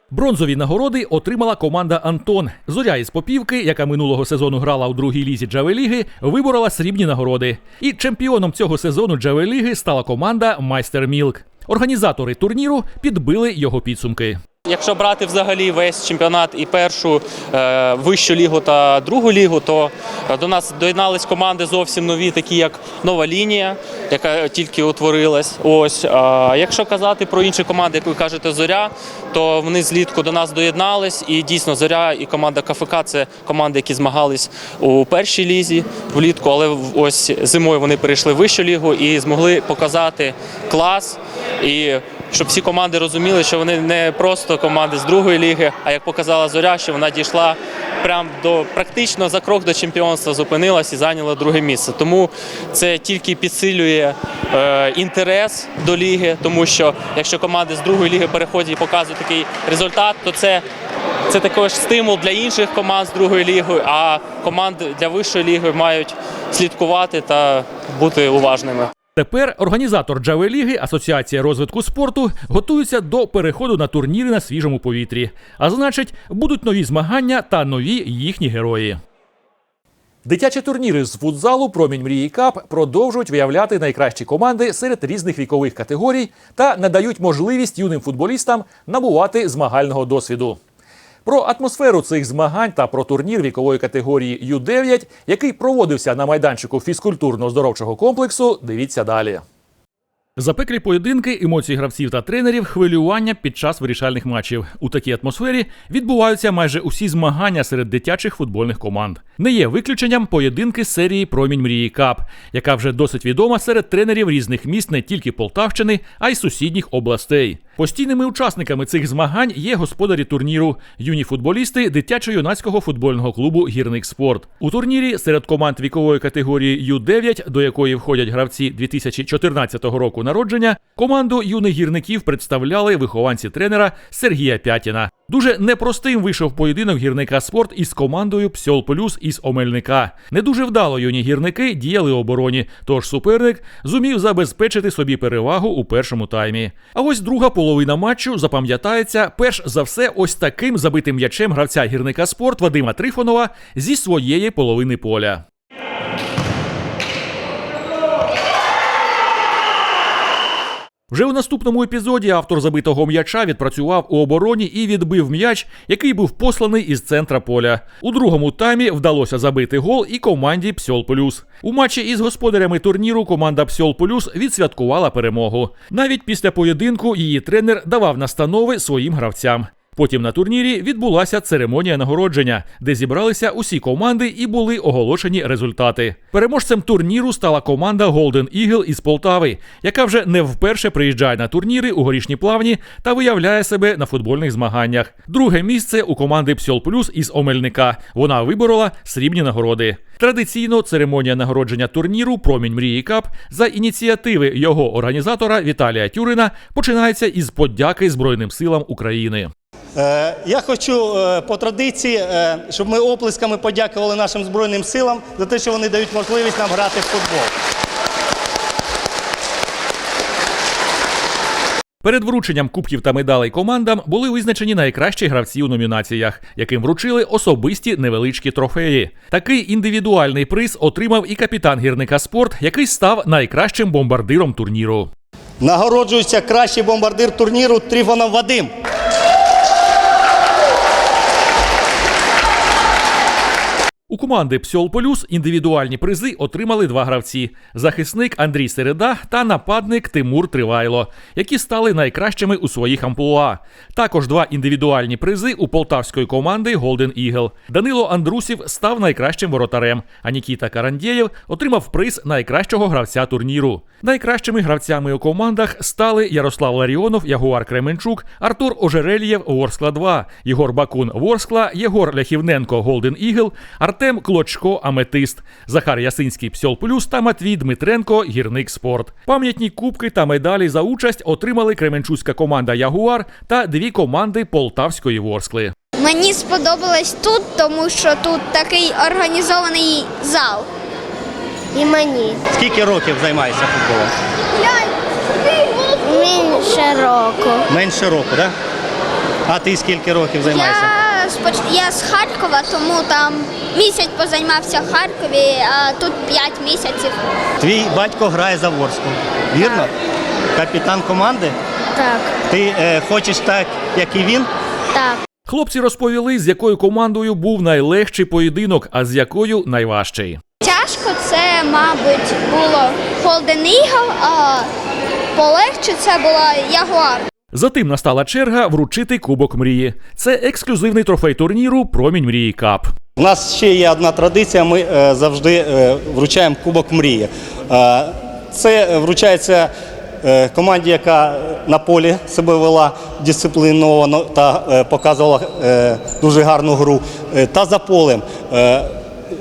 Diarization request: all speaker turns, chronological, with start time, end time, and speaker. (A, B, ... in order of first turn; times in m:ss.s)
0:00.1-0:14.4 A
0:14.7-1:00.6 B
1:01.3-1:08.9 B
1:09.2-1:19.0 A
1:20.2-1:30.6 A
1:31.2-1:39.4 A
1:40.4-2:35.4 A
2:41.1-3:29.5 A
3:30.0-3:37.5 C
3:42.0-3:55.1 A
3:55.6-3:58.7 C
4:04.1-4:45.7 A
4:46.0-4:50.7 D
4:51.7-4:52.4 D
4:52.5-4:54.1 C
4:55.8-4:57.6 D
4:57.7-4:58.5 C
4:59.5-5:00.9 C
5:00.5-5:07.2 D
5:07.6-5:09.9 C
5:10.6-5:11.5 C
5:12.0-5:12.3 D
5:12.5-5:14.5 C
5:14.9-5:15.2 D
5:15.5-5:20.4 A
5:20.6-5:24.7 D
5:25.4-5:27.2 D
5:27.5-5:32.9 A
5:33.2-5:39.7 C
5:40.2-5:49.0 C